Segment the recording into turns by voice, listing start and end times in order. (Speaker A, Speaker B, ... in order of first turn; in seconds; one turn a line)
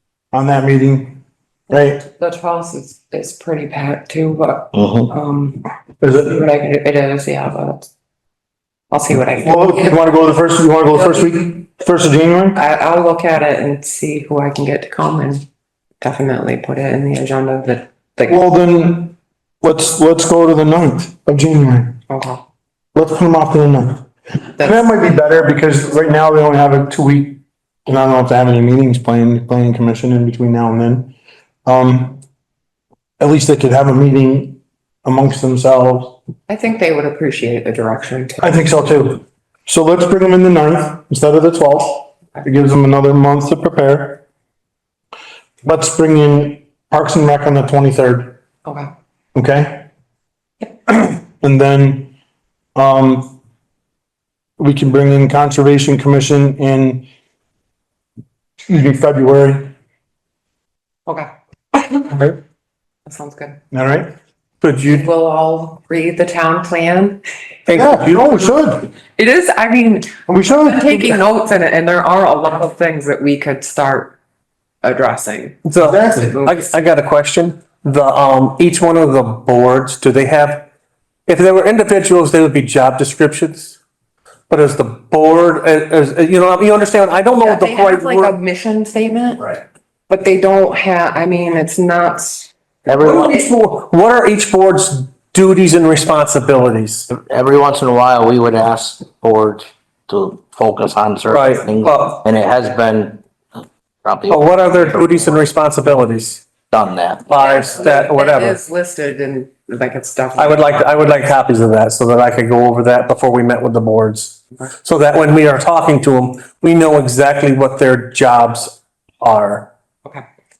Speaker A: 0.3-2.0
Speaker B: 2.0-7.9
Speaker C: 4.7-5.1
Speaker A: 6.0-6.4
Speaker B: 8.9-10.0
Speaker A: 9.4-12.6
Speaker B: 12.5-15.4
Speaker B: 16.0-18.4
Speaker A: 18.3-22.0
Speaker B: 22.1-22.4
Speaker A: 22.9-24.0
Speaker A: 24.6-31.1
Speaker A: 31.6-32.2
Speaker A: 33.2-36.2
Speaker B: 36.5-38.7
Speaker A: 38.4-44.2
Speaker A: 45.6-48.4
Speaker B: 48.6-48.9
Speaker A: 49.3-49.9
Speaker A: 50.9-52.1
Speaker A: 52.7-53.4
Speaker A: 54.6-57.0
Speaker A: 58.7-59.7
Speaker B: 61.1-62.3
Speaker B: 63.0-63.6
Speaker A: 63.7-64.1
Speaker D: 64.6-65.0
Speaker B: 64.8-67.2
Speaker D: 67.7-68.2
Speaker A: 67.7-68.9
Speaker B: 69.1-74.2
Speaker A: 70.3-71.2
Speaker B: 74.8-76.7
Speaker D: 75.6-80.7
Speaker A: 75.8-76.3
Speaker D: 81.3-83.8
Speaker D: 84.5-88.3
Speaker B: 87.4-92.5
Speaker C: 92.9-93.4
Speaker D: 93.0-97.1
Speaker C: 97.1-103.2
Speaker D: 101.3-102.2
Speaker C: 104.0-105.3
Speaker D: 104.3-106.5
Speaker C: 106.7-107.3
Speaker D: 107.3-108.6
Speaker B: 107.4-111.0
Speaker D: 110.3-119.7